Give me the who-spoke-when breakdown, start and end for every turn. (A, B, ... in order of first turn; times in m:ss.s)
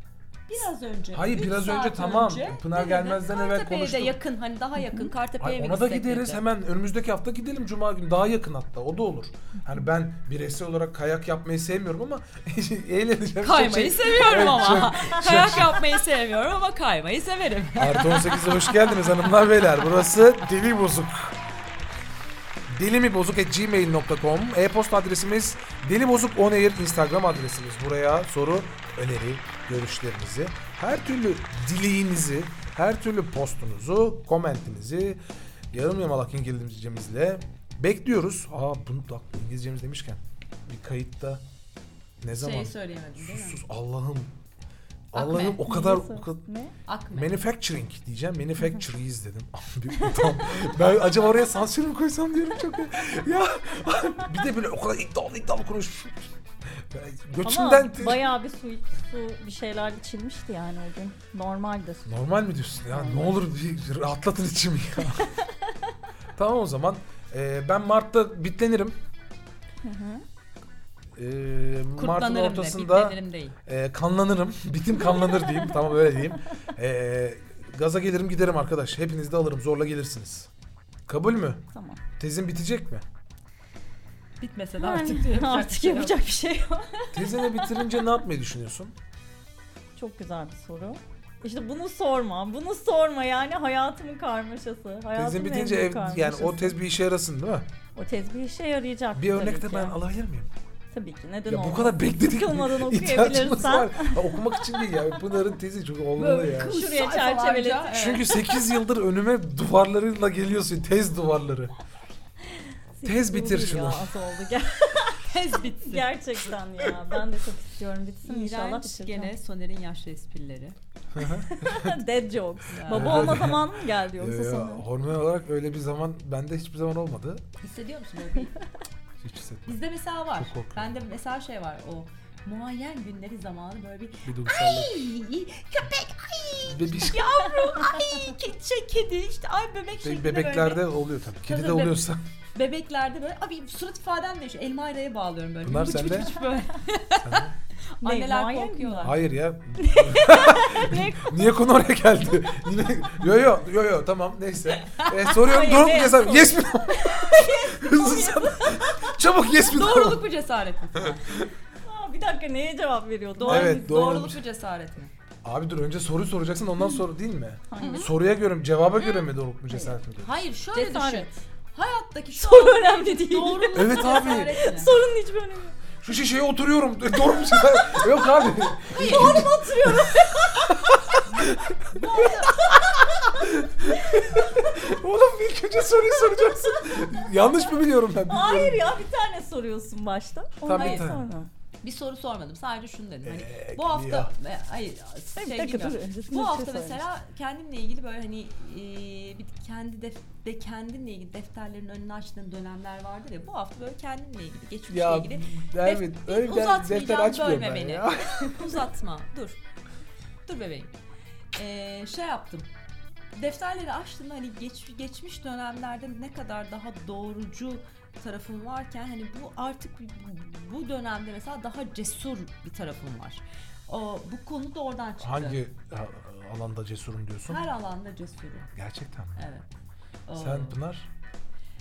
0:00.5-0:06.4 A
0:01.1-0:04.2 B
0:04.8-0:05.1 C
0:05.4-0:15.8 B
0:13.4-0:19.2 A
0:17.8-0:21.4 B
0:22.7-0:35.2 B
0:35.7-0:41.4 B
0:42.2-0:44.3 B
0:42.4-0:43.6 A
0:45.1-0:46.4 B
0:45.1-0:45.6 A
0:45.6-0:46.7 C
0:46.9-0:47.4 A
0:47.1-0:58.3 B
0:57.4-1:02.1 C
1:02.1-1:05.3 B
1:02.9-1:03.3 C
1:06.4-1:09.0 B
1:09.8-1:10.2 C
1:11.2-1:20.5 B
1:12.0-1:13.6 A
1:21.1-1:21.6 B
1:21.7-1:22.0 C
1:22.2-1:23.0 B
1:24.4-1:26.2 A
1:24.8-1:28.0 C
1:27.1-1:28.9 B
1:30.0-1:36.8 C
1:35.2-1:37.7 B
1:38.0-1:40.0 C
1:39.2-1:40.5 B
1:40.9-1:44.8 C
1:41.5-1:46.8 B
1:46.2-1:48.5 A
1:46.6-1:48.2 C
1:47.9-1:51.7 B
1:53.0-1:55.3 C
1:53.0-1:54.1 B
1:55.2-1:56.1 A
1:55.8-1:59.3 C
1:58.2-2:00.8 A
2:01.1-2:02.0 B
2:01.2-2:04.8 C
2:02.7-2:03.5 A
2:02.9-2:07.4 B
2:07.6-2:08.5 A
2:09.2-2:09.8 B
2:09.7-2:20.9 A
2:10.4-2:11.0 B
2:14.3-2:15.0 B
2:16.7-2:17.4 B
2:20.0-2:22.2 B
2:21.5-2:27.5 A
2:25.6-2:26.4 B
2:27.2-2:27.6 B
2:28.0-2:29.2 A
2:28.0-2:29.2 C
2:29.0-2:40.2 B
2:29.8-2:31.4 C
2:34.8-2:35.1 A
2:35.4-2:38.8 C
2:39.6-2:41.4 A
2:41.0-2:41.5 B
2:41.8-2:44.1 C
2:43.4-2:45.1 A
2:43.5-2:44.4 B
2:45.4-2:50.4 B
2:47.7-2:48.1 C
2:47.8-2:48.1 A
2:50.2-2:54.9 A
2:50.7-2:51.4 C
2:52.4-2:55.8 C
2:53.7-2:54.6 B
2:56.0-3:08.9 B
2:59.0-3:00.8 C
2:59.0-2:59.4 A
3:01.9-3:02.7 A
3:08.3-3:11.5 C
3:10.6-3:11.2 B
3:10.7-3:11.1 A
3:11.8-3:29.6 A
3:13.2-3:14.3 B
3:15.4-3:17.0 C
3:24.9-3:28.8 B
3:30.5-3:30.9 A
3:31.5-3:32.7 A
3:33.4-3:45.6 A
3:45.2-3:47.6 B
3:47.5-3:48.7 A
3:48.8-3:49.4 B
3:49.4-3:49.6 A
3:50.3-3:50.8 A
3:50.4-3:51.1 B